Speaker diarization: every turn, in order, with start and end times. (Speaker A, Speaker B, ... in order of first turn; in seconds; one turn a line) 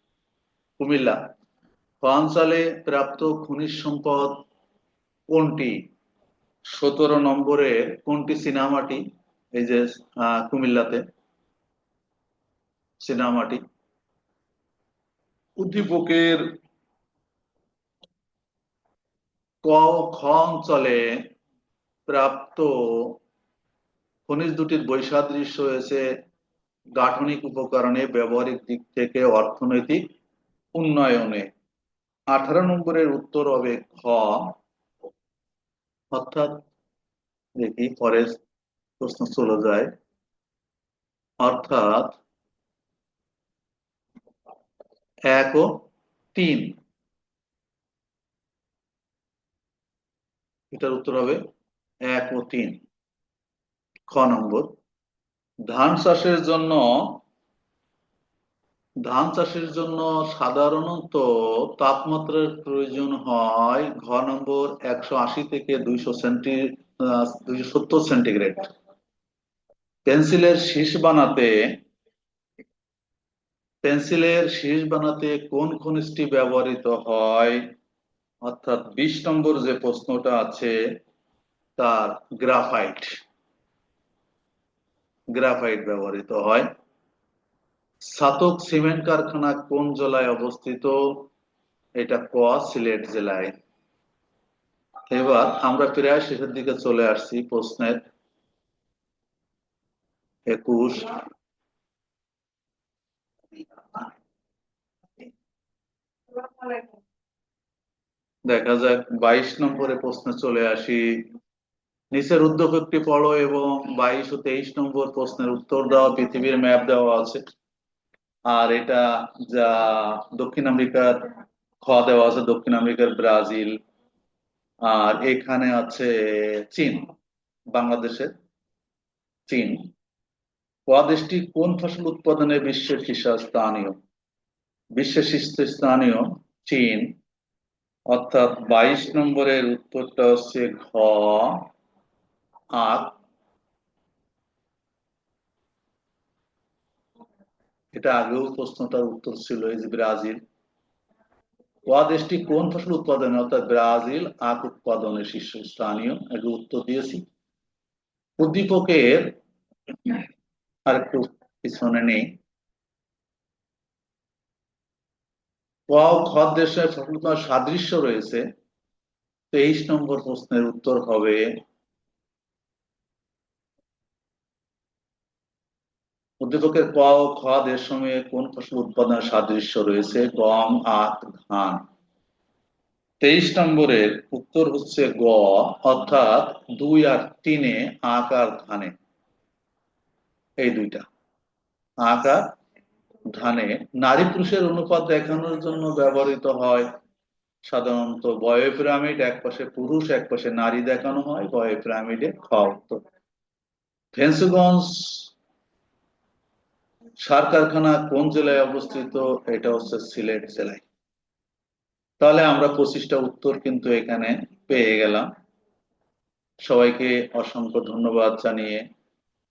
Speaker A: 0.8-1.2
Speaker A: 2.0-4.4
Speaker A: 5.3-5.8
Speaker A: 6.7-9.0
Speaker A: 9.5-11.0
Speaker A: 13.0-13.6
Speaker A: 15.6-16.4
Speaker A: 19.6-21.2
Speaker A: 22.1-23.2
Speaker A: 24.3-26.1
Speaker A: 27.0-30.0
Speaker A: 30.7-31.5
Speaker A: 32.3-34.6
Speaker A: 36.1-36.7
Speaker A: 37.6-38.4
Speaker A: 39.0-39.9
Speaker A: 41.4-42.2
Speaker A: 45.3-45.8
Speaker A: 46.3-46.8
Speaker A: 50.7-51.4
Speaker A: 52.1-52.8
Speaker A: 54.1-54.7
Speaker A: 55.7-57.2
Speaker A: 59.0-68.7
Speaker A: 70.0-71.6
Speaker A: 73.8-77.6
Speaker A: 78.4-80.8
Speaker A: 81.8-83.1
Speaker A: 85.3-86.7
Speaker A: 88.1-91.3
Speaker A: 92.0-93.5
Speaker A: 95.1-98.0
Speaker A: 100.5-101.2
Speaker A: 108.5-111.2
Speaker A: 112.1-117.4
Speaker A: 118.5-121.3
Speaker A: 121.8-123.7
Speaker A: 124.8-127.1
Speaker A: 127.7-128.3
Speaker A: 129.5-129.9
Speaker A: 130.9-133.9
Speaker A: 134.9-137.1
Speaker A: 138.1-141.7
Speaker A: 142.7-143.2
Speaker A: 147.9-150.4
Speaker A: 151.9-157.2
Speaker A: 158.4-159.3
Speaker A: 160.8-162.2
Speaker A: 165.9-168.4
Speaker A: 169.5-171.5
Speaker A: 176.4-181.8
Speaker A: 183.2-188.9
Speaker A: 190.6-191.0
Speaker A: 192.0-192.5
Speaker A: 193.3-196.9
Speaker A: 197.6-203.0
Speaker A: 204.1-205.3
Speaker A: 207.2-210.8
Speaker A: 212.2-215.3
Speaker A: 216.6-218.8